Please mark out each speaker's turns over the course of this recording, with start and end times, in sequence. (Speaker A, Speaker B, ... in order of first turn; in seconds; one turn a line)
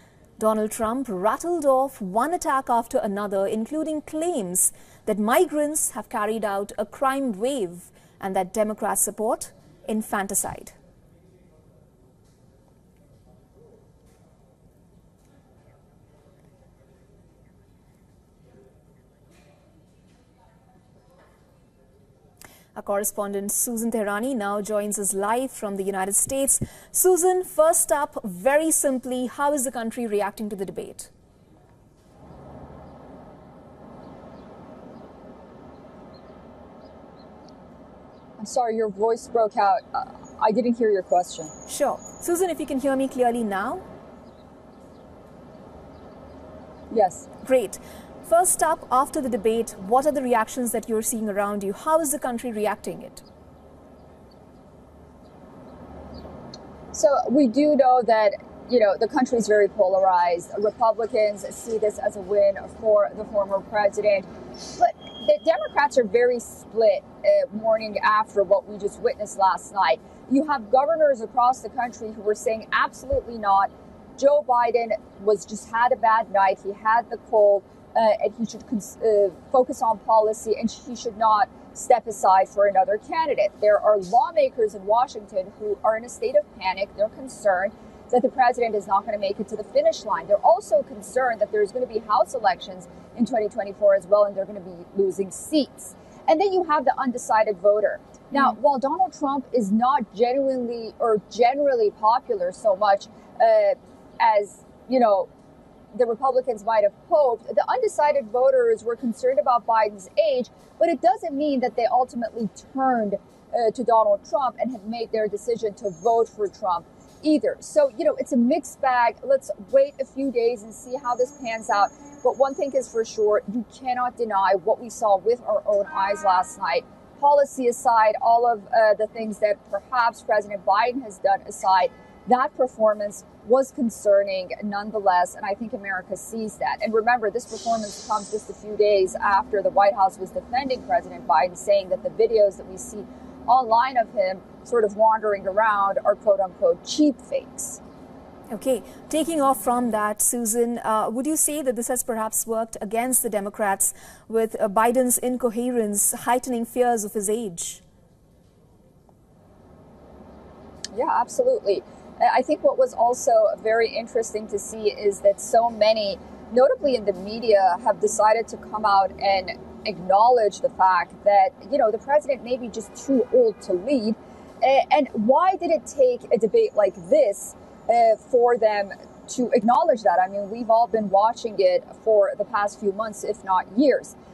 Speaker A: 0.4-10.7
Speaker A: 22.7-31.1
Speaker B: 38.4-41.5
Speaker A: 41.7-43.8
Speaker B: 46.9-47.3
Speaker A: 47.4-53.2
Speaker B: 56.9-105.3
Speaker B: 105.9-147.8
Speaker A: 148.5-157.8
Speaker B: 160.9-184.1